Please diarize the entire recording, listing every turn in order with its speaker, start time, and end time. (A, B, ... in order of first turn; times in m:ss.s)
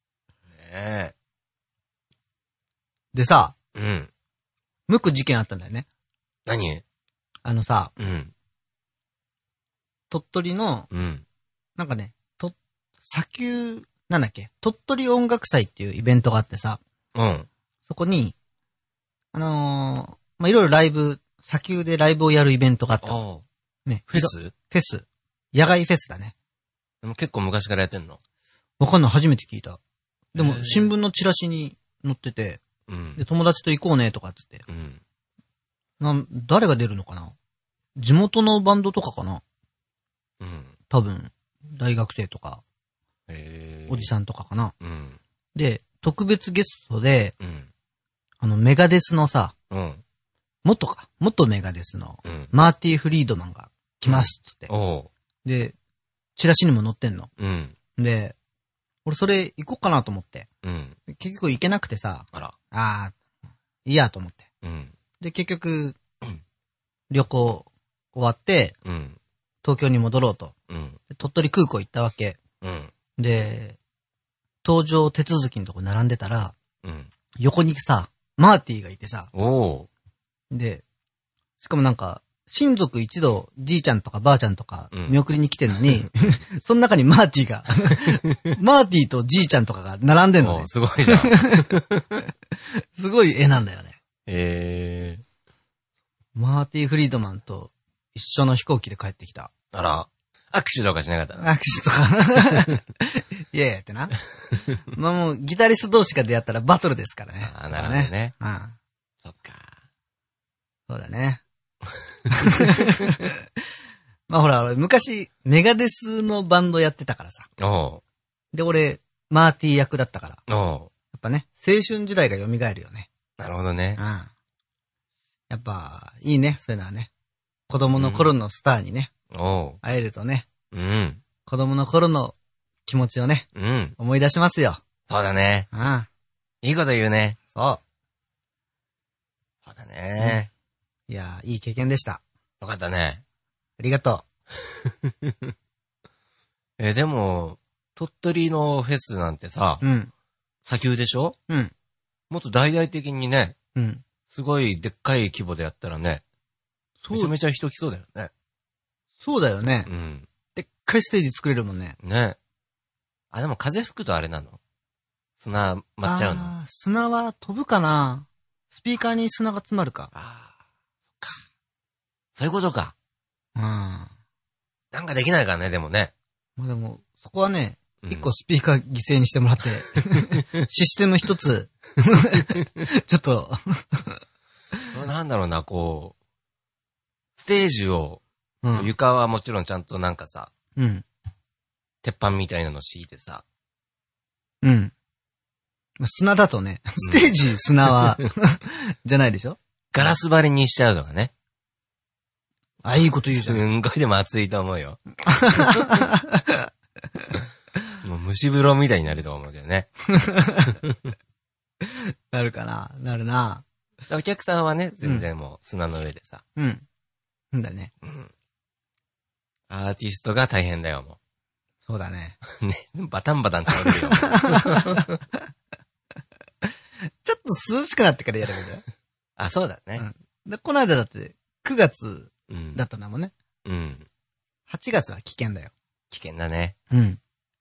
0:00.5-0:01.1 A
0:03.1-0:03.6 B
0:03.7-0:04.1 A
0:04.9-0:05.8 B
0:06.4-0:06.8 A
0:07.4-0:07.9 B
0:08.0-0:08.3 A
0:10.1-0:10.9 B
0:10.9-0:11.2 A
0:11.8-0:16.8 B
0:17.1-0:17.5 A
0:17.8-0:18.4 B
0:19.3-0:23.2 B
0:23.0-0:23.4 A
0:23.8-0:26.3 B
0:24.1-0:24.5 A
0:27.0-0:28.2 A
0:28.8-0:29.8 B
0:30.3-0:30.9 A
0:30.3-0:32.6 B
0:32.9-0:33.2 A
0:33.2-0:34.6 B
0:34.7-0:35.0 A
0:36.0-0:37.3 B
0:38.0-0:39.4 B
0:40.4-0:40.7 A
0:40.9-0:42.6 B
0:43.3-0:44.1 A
0:43.9-0:44.7 B
0:44.8-0:45.2 A
0:45.5-0:47.3 B
0:47.4-0:47.7 A
0:48.4-0:49.5 B
0:49.7-0:50.0 A
0:50.6-0:54.7 B
0:52.2-0:52.5 A
0:54.0-0:55.1 A
0:55.4-0:55.7 B
0:56.4-0:57.3 B
0:57.4-0:57.8 A
0:58.0-0:58.4 B
0:59.0-1:00.5 B
1:00.6-1:01.0 A
1:01.1-1:03.2 B
1:03.8-1:04.4 B
1:04.6-1:04.9 A
1:05.2-1:06.0 B
1:07.1-1:08.7 B
1:08.8-1:09.2 A
1:09.6-1:10.5 B
1:10.7-1:11.0 A
1:11.1-1:12.4 B
1:12.6-1:12.9 A
1:13.2-1:13.8 B
1:14.6-1:16.5 B
1:16.8-1:17.1 A
1:17.4-1:19.3 B
1:19.3-1:19.9 A
1:20.5-1:20.8 B
1:21.6-1:31.8 B
1:24.9-1:25.2 A
1:30.4-1:32.0 A
1:32.9-1:34.0 B
1:34.3-1:35.2 A
1:36.4-1:39.5 B
1:39.7-1:41.5 A
1:41.4-1:44.2 B
1:44.9-1:48.8 B
1:47.4-1:48.3 A
1:49.2-1:49.8 A
1:50.9-1:51.4 B
1:52.3-1:53.4 B
1:54.3-1:57.5 B
1:57.6-1:58.0 A
1:58.5-2:00.4 B
2:00.5-2:00.9 A
2:01.1-2:03.1 B
2:03.4-2:04.0 A
2:04.0-2:04.3 B
2:05.5-2:07.1 B
2:07.7-2:09.1 B
2:08.0-2:08.3 A
2:09.3-2:09.8 A
2:09.8-2:10.4 B
2:10.7-2:11.2 A
2:11.4-2:12.3 B
2:12.8-2:13.5 B
2:13.5-2:14.0 A
2:14.0-2:14.8 B
2:15.1-2:15.7 A
2:15.7-2:16.1 B
2:16.6-2:17.4 A
2:17.5-2:17.8 B
2:19.6-2:20.5 A
2:21.1-2:22.2 B
2:22.6-2:23.2 A
2:23.8-2:24.2 B
2:24.8-2:25.5 A
2:26.8-2:29.8 A
2:29.8-2:30.1 B
2:30.6-2:31.4 A
2:32.3-2:33.6 A
2:33.7-2:34.0 B
2:34.3-2:36.2 A
2:37.0-2:37.3 B
2:37.1-2:38.3 A
2:39.2-2:39.9 B
2:39.8-2:40.3 A
2:40.5-2:42.0 B
2:42.0-2:42.4 A
2:43.3-2:44.6 A
2:45.4-2:46.5 A
2:46.0-2:50.1 B
2:50.1-2:50.5 A
2:52.3-2:52.9 A
2:53.6-2:54.1 B
2:54.9-2:56.1 A
2:56.6-3:04.2 B
2:58.0-2:58.3 A
3:00.1-3:00.4 A
3:04.9-3:06.1 A
3:07.4-3:08.2 A
3:08.6-3:08.9 B
3:08.7-3:10.5 A
3:10.8-3:11.0 B
3:12.0-3:13.4 A
3:14.6-3:14.9 B
3:16.0-3:19.6 B
3:17.0-3:18.2 A
3:19.9-3:21.3 A
3:22.8-3:23.6 B
3:23.3-3:26.0 A
3:25.2-3:26.7 B
3:28.0-3:29.9 A
3:30.1-3:30.8 B
3:31.8-3:33.6 B
3:34.1-3:36.4 A
3:36.6-3:36.8 B
3:37.5-3:37.9 B
3:38.0-3:38.3 A
3:39.7-3:41.2 A
3:41.8-3:42.4 B
3:42.4-3:45.2 A
3:43.8-3:45.1 B
3:47.2-3:48.8 B
3:49.4-3:50.0 A
3:50.0-3:53.3 B
3:52.5-3:52.8 A
3:53.6-3:54.1 A
3:54.7-3:55.7 B
3:56.1-3:56.7 A
3:56.9-3:57.2 B